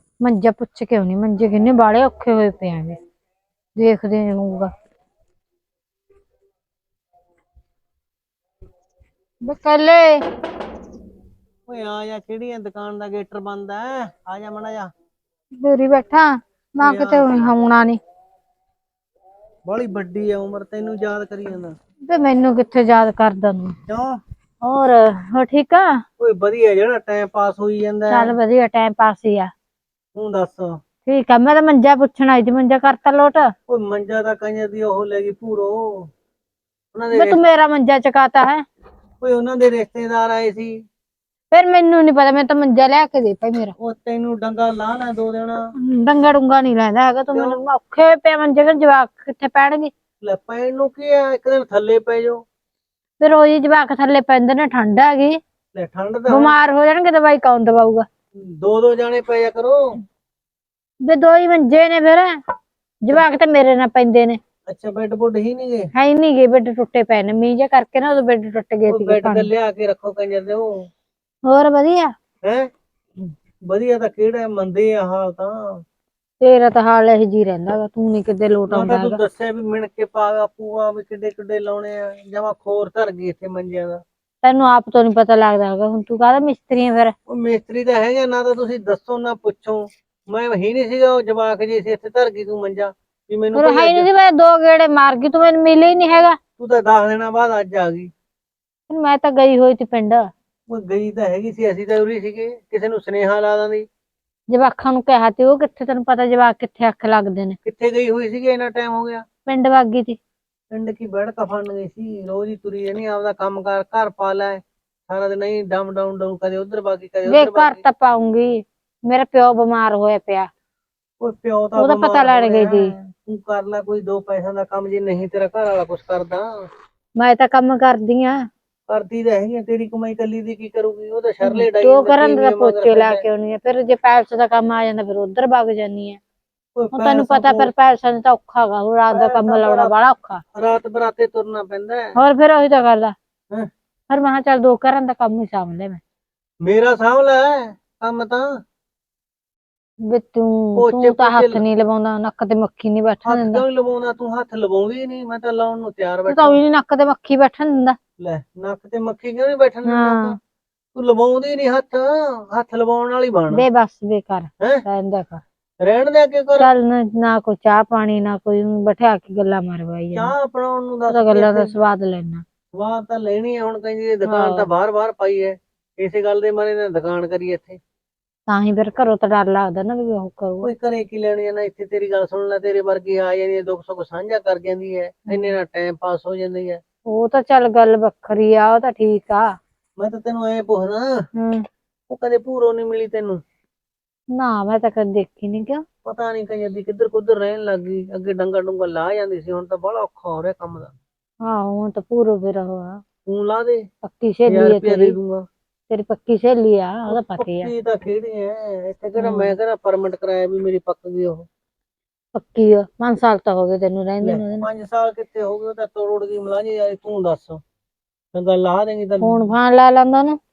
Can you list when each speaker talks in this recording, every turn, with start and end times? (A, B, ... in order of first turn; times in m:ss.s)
0:00.2-0:03.0 A
0:03.8-0:04.7 A
0:09.5-0:10.2 A
0:11.7-0:14.9 B
0:15.6-0:18.0 A
0:16.8-0:17.5 B
0:19.7-0:21.8 B
0:22.1-0:23.8 A
0:23.9-0:24.2 B
0:24.6-0:26.0 A
0:26.2-0:28.4 B
0:28.1-0:29.5 A
0:30.2-0:30.8 B
0:31.1-0:33.5 A
0:33.7-0:36.1 B
0:36.9-0:37.4 B
0:37.1-0:38.6 A
0:39.2-0:40.8 B
0:41.5-0:43.7 A
0:43.8-0:45.7 B
0:45.8-0:49.9 A
0:47.3-0:47.6 B
0:50.2-0:52.4 B
0:53.2-0:55.4 A
0:55.7-0:56.6 B
0:56.3-0:58.1 A
0:58.4-1:00.0 B
1:01.0-1:02.4 A
1:03.0-1:04.4 A
1:04.7-1:05.9 B
1:06.0-1:09.5 A
1:08.9-1:10.9 B
1:11.5-1:12.1 A
1:12.4-1:12.7 B
1:13.2-1:15.8 B
1:16.4-1:19.2 A
1:18.7-1:24.0 B
1:24.4-1:27.1 A
1:27.3-1:34.1 B
1:33.6-1:36.4 A
1:36.6-1:38.1 B
1:38.9-1:40.3 A
1:40.7-1:43.9 B
1:44.5-1:47.6 A
1:47.6-1:49.2 B
1:49.5-1:50.2 A
1:50.7-1:57.8 B
1:57.3-2:00.5 A
2:01.2-2:06.7 B
2:01.8-2:03.0 A
2:07.2-2:08.5 A
2:08.9-2:13.2 B
2:11.4-2:16.2 A
2:16.8-2:17.7 B
2:16.9-2:20.4 A
2:19.1-2:19.9 B
2:20.6-2:22.2 B
2:22.2-2:23.2 A
2:24.1-2:26.0 A
2:26.6-2:28.5 B
2:30.0-2:33.6 A
2:30.8-2:31.6 B
2:33.2-2:36.6 B
2:36.3-2:38.0 A
2:38.2-2:40.4 B
2:39.9-2:40.4 A
2:41.0-2:43.6 B
2:43.5-2:45.4 A
2:45.8-2:46.7 B
2:46.6-2:50.3 A
2:50.1-2:51.7 B
2:51.1-2:52.4 A
2:52.7-2:57.8 B
2:54.3-2:54.7 A
2:58.5-3:00.7 A
3:00.6-3:06.8 B
3:05.3-3:05.5 A
3:07.1-3:09.6 A
3:10.0-3:11.3 B
3:11.4-3:11.6 A
3:12.1-3:13.4 B
3:14.3-3:15.8 A
3:16.0-3:20.9 B
3:21.4-3:23.0 A
3:23.3-3:23.9 B
3:24.0-3:25.2 A
3:24.5-3:25.5 B
3:25.9-3:27.7 A
3:27.1-3:31.5 B
3:29.2-3:29.6 A
3:32.4-3:34.7 A
3:34.2-3:37.6 B
3:38.3-3:39.5 B
3:39.2-3:40.4 A